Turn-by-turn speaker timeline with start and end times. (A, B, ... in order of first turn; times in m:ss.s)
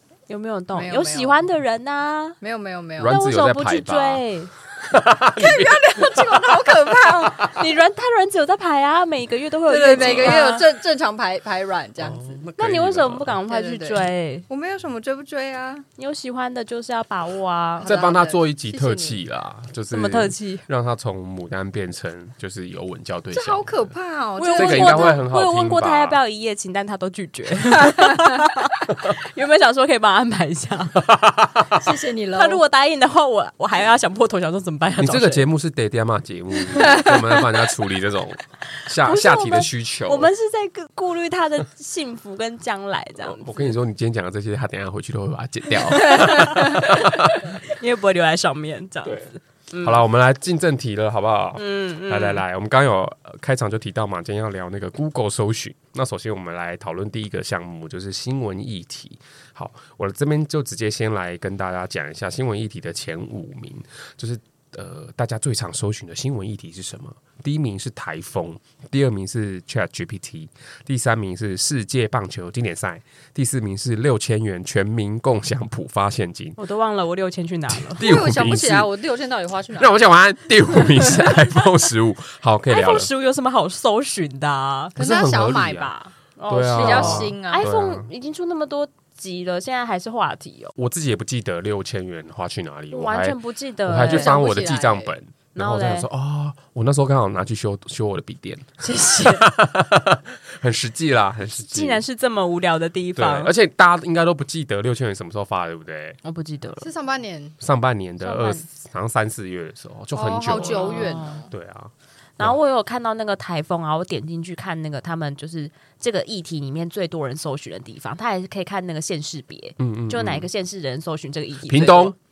0:00.3-0:02.4 A
0:00.7-0:01.4 B
0:02.4-0:03.2 B
0:03.0-0:04.2 C
0:03.0-0:04.5 A
0:04.8-0:07.5 C
0:05.4-0:07.4 B
0:07.3-0:10.6 A
0:09.7-0:12.4 B
0:09.9-0:10.4 C
0:12.0-0:13.4 C
0:12.6-0:14.4 A
0:13.4-0:15.8 B
0:16.0-0:17.9 A
0:17.8-0:19.2 B
0:17.8-0:23.9 C
0:19.9-0:20.6 A
0:23.3-0:25.2 B
0:24.4-0:31.0 A
0:24.5-0:26.2 C
0:31.0-0:31.8 C
0:31.7-0:32.6 B
0:32.3-0:35.4 A
0:35.0-0:40.3 C
0:36.7-0:37.1 A
0:36.8-0:37.1 B
0:38.8-0:43.7 A
0:43.2-0:47.6 C
0:45.9-0:50.0 A
0:49.8-1:16.6 C
0:51.6-0:52.4 A
1:16.6-1:18.1 A
1:17.7-1:18.9 C
1:18.0-1:19.9 B
1:19.8-1:23.1 C
1:22.7-1:25.0 A
1:25.0-1:25.9 C
1:25.0-1:26.1 B
1:26.4-1:30.7 A
1:26.5-1:28.1 C
1:26.7-1:27.7 B
1:30.8-1:42.0 C
1:32.9-1:34.4 A
1:34.0-1:35.1 B
1:35.5-1:36.1 A
1:38.8-1:39.5 A
1:41.6-1:43.5 A
1:43.2-1:46.2 C
1:46.2-1:46.9 A
1:46.8-1:47.6 B
1:47.6-1:52.6 C
1:48.2-1:48.6 A
1:50.1-1:51.5 B
1:50.6-1:51.4 A
1:52.4-2:02.1 A
1:59.8-2:00.5 C
2:01.7-2:02.1 C